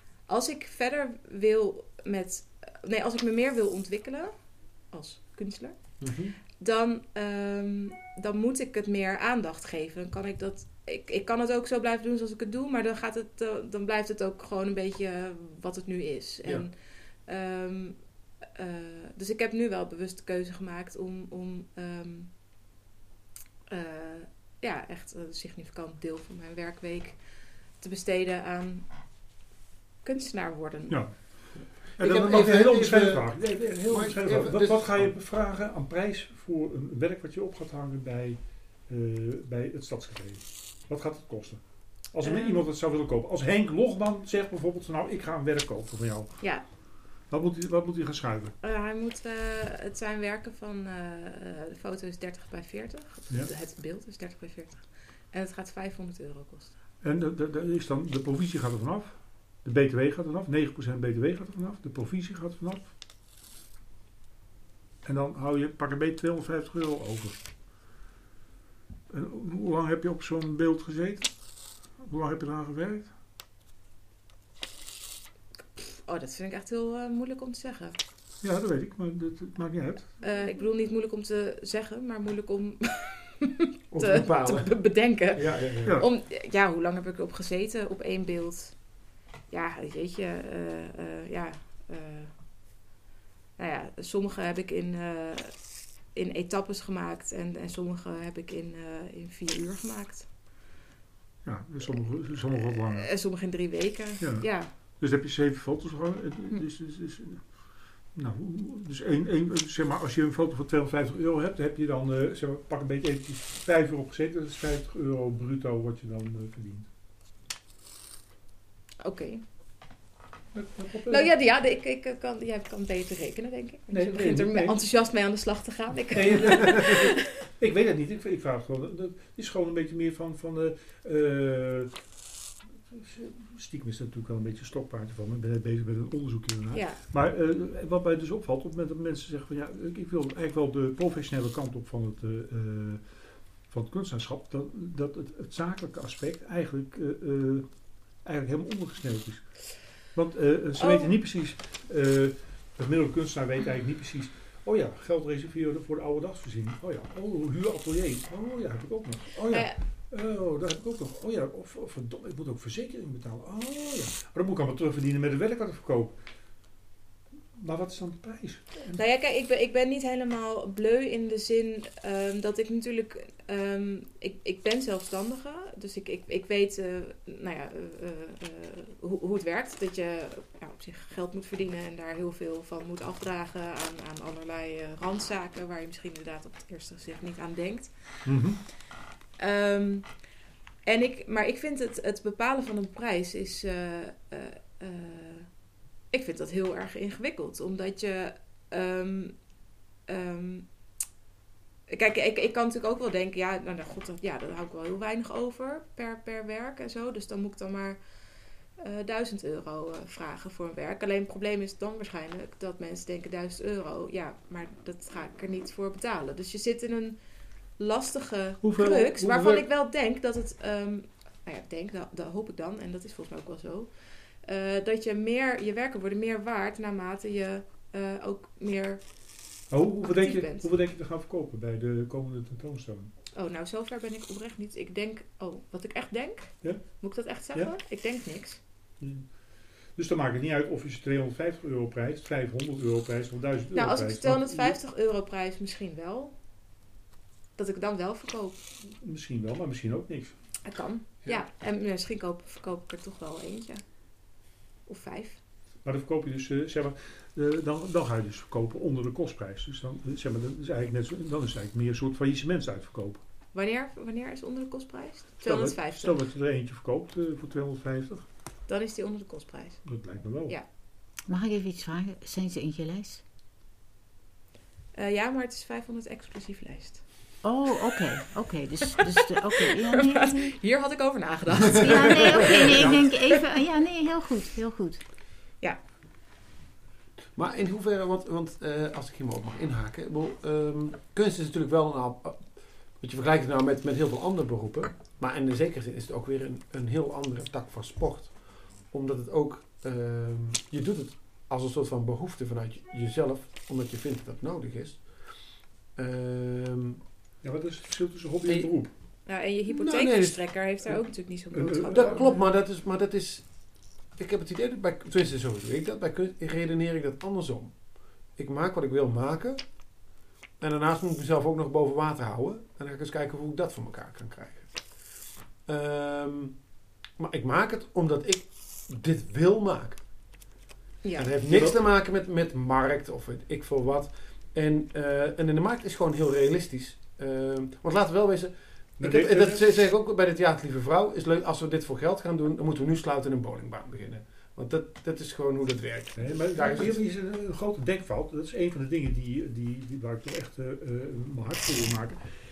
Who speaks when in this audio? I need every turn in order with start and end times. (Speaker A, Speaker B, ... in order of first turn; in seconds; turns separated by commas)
Speaker A: 0.3-22.3, Speaker B: 6.0-6.4, Speaker A: 23.7-27.2, Speaker A: 27.7-28.9, Speaker A: 30.0-31.2, Speaker C: 30.9-48.5, Speaker B: 31.6-35.1, Speaker A: 42.2-42.6, Speaker A: 48.6-56.8, Speaker C: 57.0-62.9, Speaker C: 65.0-67.4, Speaker C: 69.1-71.3, Speaker C: 72.0-73.1, Speaker A: 75.8-78.0, Speaker C: 78.4-80.2, Speaker A: 80.2-88.8, Speaker B: 83.9-84.8, Speaker B: 85.3-86.0, Speaker C: 85.8-86.1, Speaker A: 89.5-92.3, Speaker A: 93.6-100.3, Speaker C: 101.5-103.1, Speaker A: 101.9-104.7, Speaker C: 104.2-116.9, Speaker A: 119.0-119.4, Speaker C: 120.5-121.3, Speaker A: 121.1-127.2, Speaker C: 123.9-124.8, Speaker C: 126.1-132.0, Speaker C: 132.9-143.0, Speaker A: 136.7-137.0, Speaker C: 143.7-166.2, Speaker A: 150.8-151.1, Speaker A: 159.5-159.8, Speaker C: 167.6-169.0, Speaker A: 168.9-188.2, Speaker C: 188.2-188.6, Speaker A: 189.4-190.2, Speaker A: 190.9-195.6, Speaker A: 196.1-199.4, Speaker A: 200.1-200.7, Speaker A: 201.9-208.0, Speaker A: 208.8-217.2, Speaker A: 217.8-229.0, Speaker C: 218.6-219.7, Speaker C: 229.7-233.1, Speaker A: 230.0-230.7, Speaker A: 233.3-238.6, Speaker C: 236.6-237.0, Speaker C: 239.0-239.3, Speaker C: 240.0-244.8, Speaker A: 243.7-246.3, Speaker A: 247.6-248.6, Speaker C: 248.8-250.4, Speaker A: 250.6-253.8, Speaker A: 254.9-255.4, Speaker C: 255.8-263.2, Speaker A: 263.5-266.2, Speaker C: 265.4-268.3, Speaker A: 268.7-270.7, Speaker C: 269.9-270.6, Speaker D: 271.3-273.2, Speaker A: 274.9-277.0, Speaker D: 277.4-280.6, Speaker A: 279.6-283.4, Speaker D: 281.7-285.0, Speaker B: 287.4-305.3, Speaker B: 305.9-307.0, Speaker C: 307.4-308.9, Speaker B: 308.5-308.7, Speaker A: 309.3-312.4, Speaker B: 309.7-311.0, Speaker C: 311.5-312.2, Speaker B: 311.9-319.9, Speaker B: 320.6-330.0, Speaker A: 331.0-331.3, Speaker B: 331.2-347.0, Speaker C: 331.5-331.8, Speaker C: 339.0-339.7, Speaker C: 346.2-352.2